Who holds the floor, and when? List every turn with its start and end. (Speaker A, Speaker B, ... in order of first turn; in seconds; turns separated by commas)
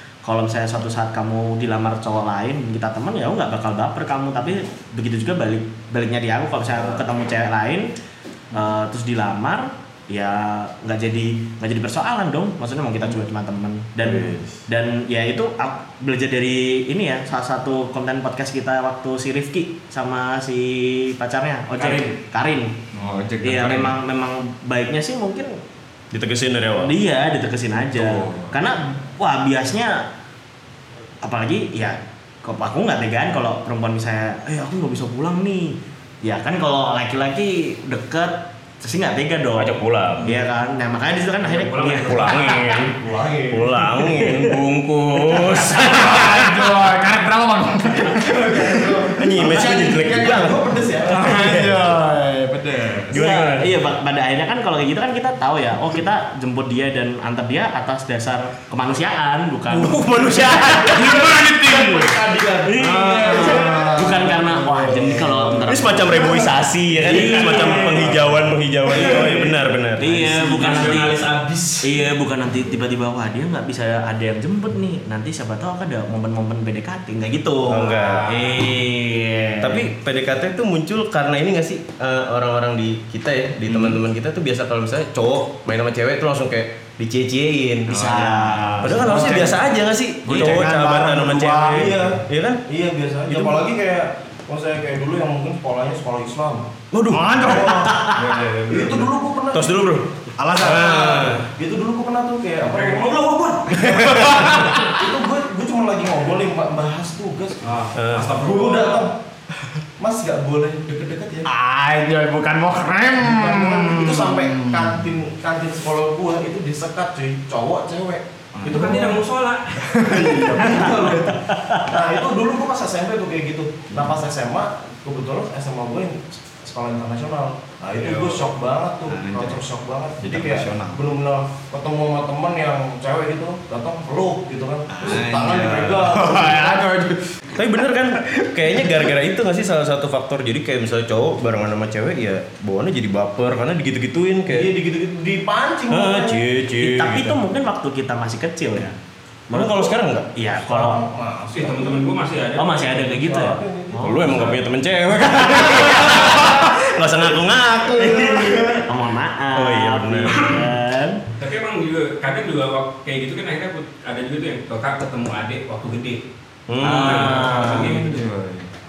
Speaker A: 0.2-7.9, Speaker B: 6.7-7.0, Speaker A: 8.5-22.7, Speaker B: 14.0-14.6, Speaker C: 21.8-22.1, Speaker D: 22.9-23.9, Speaker A: 23.4-25.6, Speaker B: 26.1-26.9, Speaker A: 26.8-30.1, Speaker D: 27.9-28.6, Speaker A: 31.2-42.8, Speaker B: 39.5-40.4, Speaker C: 41.4-42.6, Speaker B: 41.9-43.0, Speaker E: 42.9-43.9, Speaker B: 43.5-46.1, Speaker A: 44.0-44.5, Speaker A: 45.2-46.3, Speaker D: 45.7-49.4, Speaker E: 48.1-51.4, Speaker B: 49.2-51.8, Speaker D: 51.0-53.1, Speaker B: 53.1-53.8, Speaker A: 53.1-61.2, Speaker B: 59.7-61.3, Speaker E: 60.7-65.5, Speaker D: 61.2-62.1, Speaker A: 62.6-68.2, Speaker D: 62.8-65.7, Speaker B: 65.7-70.4, Speaker E: 67.8-68.2, Speaker E: 68.9-69.5, Speaker A: 70.0-71.3, Speaker C: 70.3-71.8, Speaker E: 71.0-71.3, Speaker A: 71.8-79.9, Speaker B: 77.7-78.3, Speaker C: 77.8-78.6, Speaker B: 79.6-92.6, Speaker D: 83.7-84.0, Speaker D: 87.9-89.6, Speaker A: 87.9-89.4, Speaker E: 89.1-89.5, Speaker D: 90.2-92.1, Speaker A: 90.3-90.6, Speaker E: 91.7-96.7, Speaker B: 93.3-93.6, Speaker B: 96.9-97.8, Speaker D: 97.1-99.1, Speaker E: 97.3-98.1, Speaker A: 97.5-98.2, Speaker E: 98.7-100.0, Speaker B: 99.5-101.5, Speaker D: 100.4-101.4, Speaker E: 100.8-107.8, Speaker C: 102.6-103.3, Speaker B: 103.8-104.3, Speaker D: 103.8-104.9, Speaker C: 107.6-109.1, Speaker B: 107.9-108.3, Speaker E: 108.3-109.2, Speaker E: 110.0-111.5, Speaker D: 111.7-115.1, Speaker E: 113.2-119.2, Speaker D: 118.5-119.0, Speaker C: 118.6-120.0, Speaker D: 119.8-121.4, Speaker E: 120.0-136.9, Speaker A: 121.5-121.9, Speaker C: 128.0-128.5, Speaker D: 129.1-129.6, Speaker D: 130.2-131.0, Speaker D: 134.9-139.2, Speaker B: 137.5-144.7, Speaker E: 144.5-146.4, Speaker B: 145.9-147.4, Speaker A: 146.8-148.9, Speaker A: 149.5-151.0, Speaker B: 149.5-150.3, Speaker E: 149.6-149.8, Speaker E: 150.4-152.1, Speaker C: 151.5-153.2, Speaker A: 152.6-154.4, Speaker E: 153.1-154.6, Speaker B: 154.0-158.7, Speaker A: 155.6-156.4, Speaker A: 158.0-161.2, Speaker E: 158.2-158.7, Speaker B: 159.5-160.6, Speaker C: 161.4-166.2, Speaker B: 166.7-167.5, Speaker A: 166.8-167.9, Speaker C: 166.8-168.2, Speaker D: 167.3-168.7